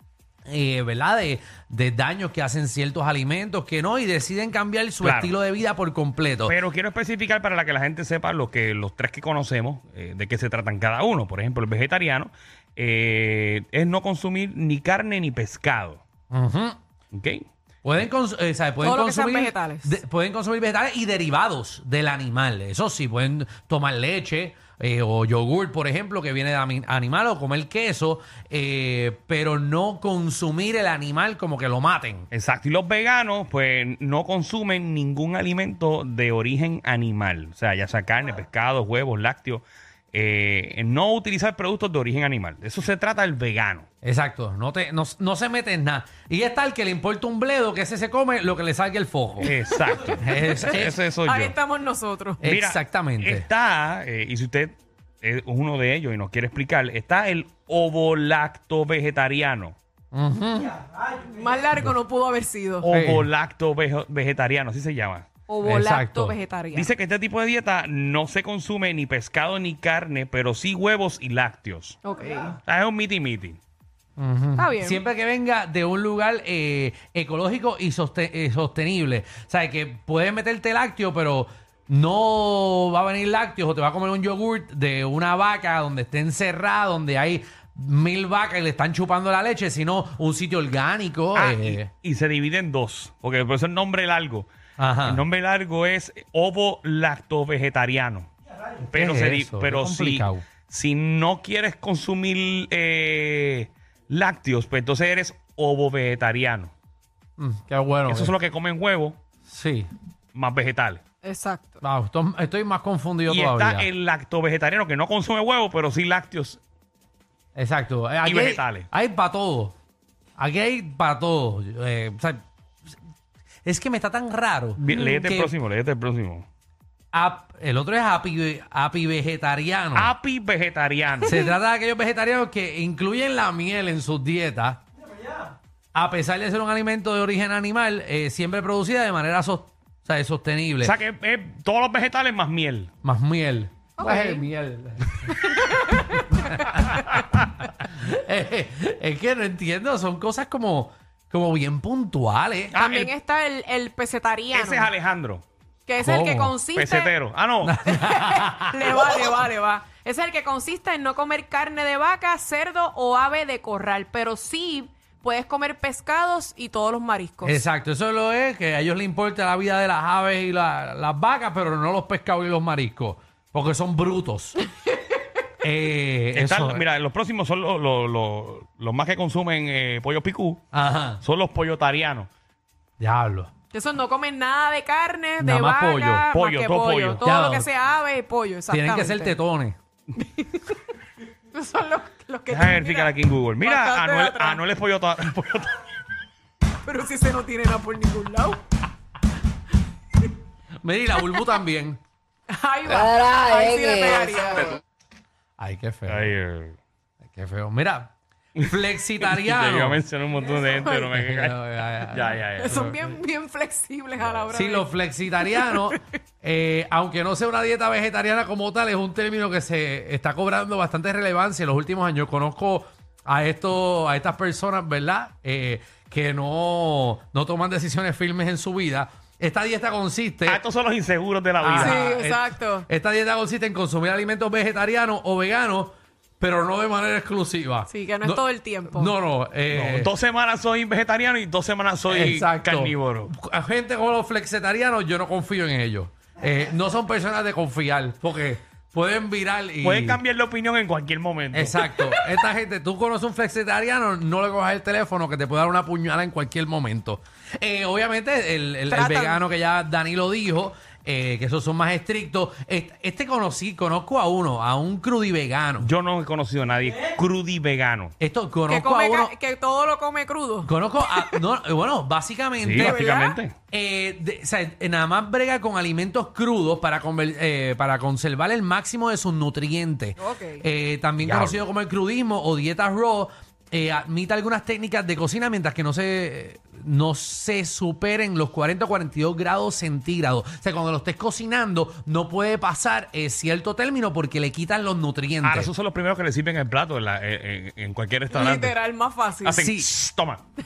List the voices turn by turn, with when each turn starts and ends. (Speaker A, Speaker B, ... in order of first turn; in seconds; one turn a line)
Speaker A: 0.5-6.5
Speaker B: 5.0-5.3
Speaker B: 6.4-16.0
Speaker A: 16.3-16.8
Speaker B: 17.1-17.4
Speaker A: 17.8-32.3
Speaker C: 18.8-19.9
Speaker B: 32.3-43.9
Speaker A: 44.0-49.5
Speaker B: 49.4-51.6
Speaker A: 50.2-51.0
Speaker C: 51.1-52.4
Speaker A: 52.4-53.5
Speaker B: 52.4-59.8
Speaker A: 60.1-60.8
Speaker C: 61.1-62.9
Speaker B: 62.8-65.3
Speaker A: 62.9-63.3
Speaker C: 65.5-66.9
Speaker A: 65.6-66.4
Speaker B: 66.7-72.0
Speaker C: 72.0-72.5
Speaker B: 72.6-73.6
Speaker A: 74.2-91.9
Speaker C: 74.6-75.0
Speaker B: 91.3-94.5
Speaker A: 94.8-95.2
Speaker B: 95.0-98.3
Speaker B: 98.8-106.7
Speaker A: 98.9-100.5
Speaker A: 107.4-108.3
Speaker B: 108.1-109.2
Speaker A: 109.5-109.9
Speaker B: 110.3-111.0
Speaker C: 111.2-111.8
Speaker A: 111.8-113.9
Speaker B: 113.3-116.6
Speaker A: 117.5-119.7
Speaker B: 118.2-118.9
Speaker A: 120.4-122.4
Speaker A: 123.7-125.5
Speaker B: 124.8-126.5
Speaker A: 127.1-130.1
Speaker B: 129.9-131.4
Speaker A: 131.2-134.8
Speaker A: 135.9-140.9
Speaker B: 140.8-142.9
Speaker A: 143.0-145.6
Speaker C: 144.0-144.4
Speaker C: 145.4-146.4
Speaker A: 146.2-146.8
Speaker A: 147.8-152.8
Speaker B: 152.7-153.1
Speaker C: 152.8-154.9
Speaker B: 154.5-155.4
Speaker C: 155.9-157.2
Speaker A: 156.0-156.6
Speaker B: 156.7-157.8
Speaker A: 157.6-159.0
Speaker C: 157.9-167.6
Speaker A: 167.4-174.6
Speaker A: 175.6-176.8
Speaker B: 176.3-180.6
Speaker A: 180.7-181.2
Speaker B: 181.2-182.3
Speaker A: 183.0-183.5
Speaker C: 183.7-189.3
Speaker A: 185.4-186.3
Speaker B: 186.3-187.2
Speaker A: 187.2-187.7
Speaker A: 188.7-189.8
Speaker C: 190.2-190.8
Speaker C: 191.5-194.6
Speaker B: 192.5-195.8
Speaker C: 196.8-198.6
Speaker A: 200.8-202.0
Speaker C: 202.5-204.8
Speaker A: 205.6-206.3
Speaker B: 206.1-206.8
Speaker A: 207.2-210.0
Speaker B: 208.6-212.9
Speaker C: 210.6-211.1
Speaker A: 211.1-213.0
Speaker C: 212.6-214.9
Speaker A: 214.5-230.6
Speaker C: 215.5-215.8
Speaker B: 230.4-232.1
Speaker A: 231.6-240.1
Speaker C: 231.8-232.8
Speaker C: 237.9-239.1
Speaker B: 239.7-243.3
Speaker A: 242.1-250.2
Speaker B: 249.8-252.2
Speaker A: 251.5-265.9
Speaker C: 258.9-259.4
Speaker B: 265.8-268.1
Speaker A: 268.2-269.3
Speaker C: 268.7-271.3
Speaker A: 270.6-273.0
Speaker B: 272.6-273.5
Speaker C: 272.8-273.4
Speaker A: 273.7-295.7
Speaker C: 280.2-280.6
Speaker B: 281.2-281.6
Speaker B: 295.4-298.7
Speaker C: 298.3-299.6
Speaker B: 299.4-300.4
Speaker A: 299.6-299.9